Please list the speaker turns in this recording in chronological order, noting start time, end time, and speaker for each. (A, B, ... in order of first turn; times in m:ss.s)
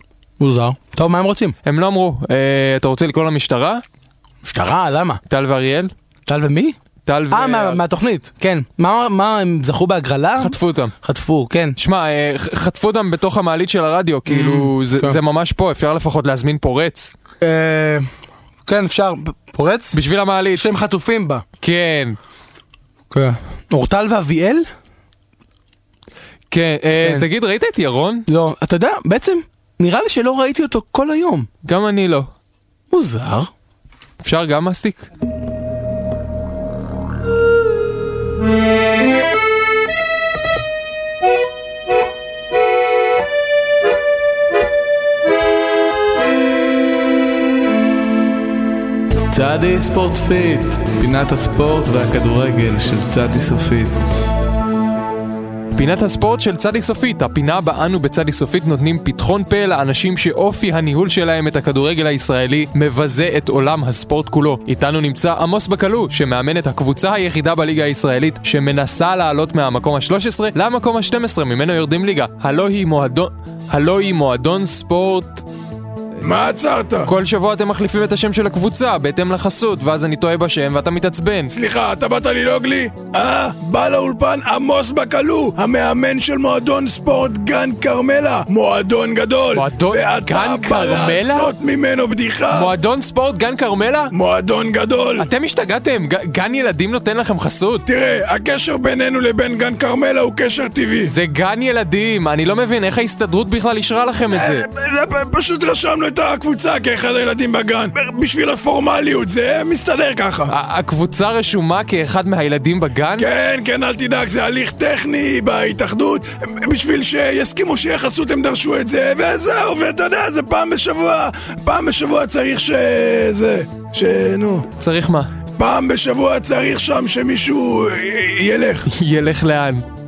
0:00.4-0:01.6 A
0:01.6-0:03.8 B
0:04.4-0:05.2 A
0:05.3-0:05.9 B
0:06.3-0:06.8 A
0:07.1-0:07.8 B
0:07.3-0:11.8 A
0:10.4-0:10.9 B
0:11.8-0:17.1 B
0:14.3-0:15.2 A
0:17.4-0:18.1 A
0:18.6-0:20.0 A
0:19.9-0:20.6 B
0:20.5-0:21.4 A
0:21.6-0:22.2 B
0:23.1-0:24.7 A
0:26.5-0:28.2 B
0:27.0-0:27.3 A
0:28.3-0:31.5 A
0:31.6-0:32.3 B
0:32.9-0:33.5 A
0:34.2-0:35.0 B
0:49.3-0:54.0 C
0:55.8-1:15.4 B
1:16.2-1:17.1 D
1:17.0-1:21.5 B
1:21.5-1:32.7 D
1:29.5-1:31.5 B
1:32.5-1:34.1 B
1:34.1-1:35.3 D
1:35.2-1:37.8 B
1:37.9-1:41.1 D
1:41.1-1:44.6 B
1:44.3-1:50.5 D
1:50.5-1:53.3 B
1:53.2-2:04.6 D
2:04.8-2:05.3 B
2:05.6-2:08.9 D
2:08.9-2:09.8 B